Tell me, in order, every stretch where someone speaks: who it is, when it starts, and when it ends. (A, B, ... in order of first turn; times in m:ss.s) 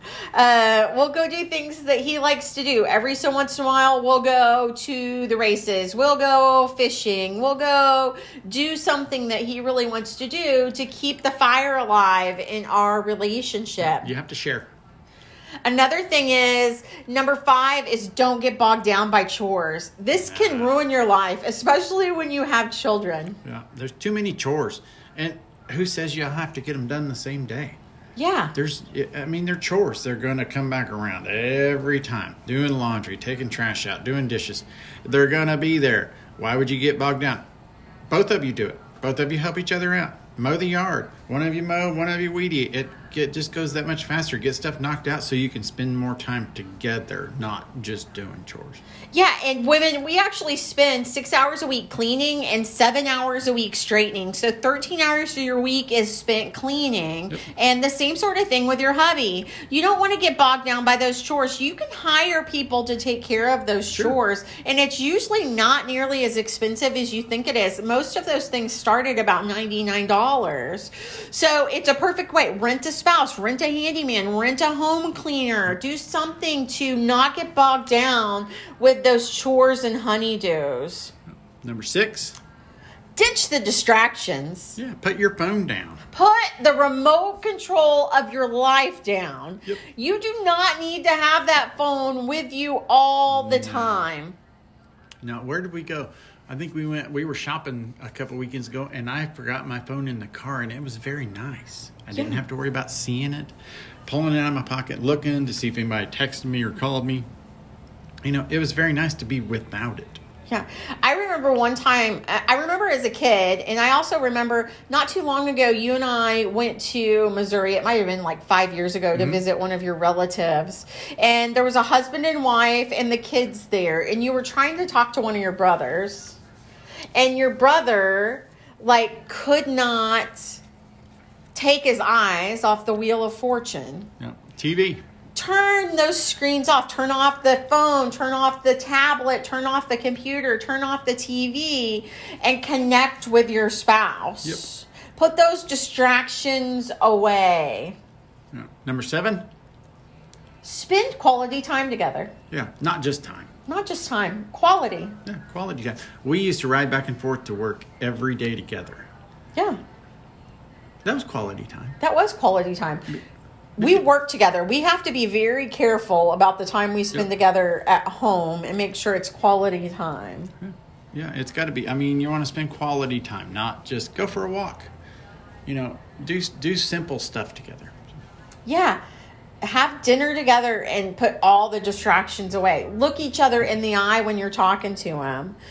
0:00.3-0:14.1 A
0:13.8-0:14.7 B
0:15.6-0:23.4 A
0:20.2-0:20.8 B
0:23.4-0:27.8 B
0:28.2-0:28.5 A
0:28.6-0:37.4 B
0:38.1-0:48.8 B
0:49.1-1:21.1 A
1:21.6-1:22.4 B
1:23.2-1:24.8 A
1:24.8-1:26.0 B
1:26.1-1:34.4 A
1:33.3-1:34.1 B
1:35.2-1:43.5 B
1:44.1-1:47.3 B
1:48.2-1:50.2 B
1:50.5-2:06.4 A
1:59.1-1:59.4 B
2:07.2-2:10.6 A
2:11.6-2:14.1 A
2:14.2-2:15.0 B
2:15.4-2:28.0 A
2:28.5-2:29.5 B
2:30.6-2:32.3 A
2:32.5-2:33.5 B
2:33.7-2:35.2 A
2:35.3-2:39.1 B
2:39.6-2:39.8 A
2:41.0-2:42.0 B
2:42.0-2:43.2 A
2:43.8-2:50.5 A
2:43.8-2:44.0 B
2:50.6-2:54.9 B
2:55.7-2:58.0 B
2:58.6-2:59.0 A
2:59.6-3:05.6 A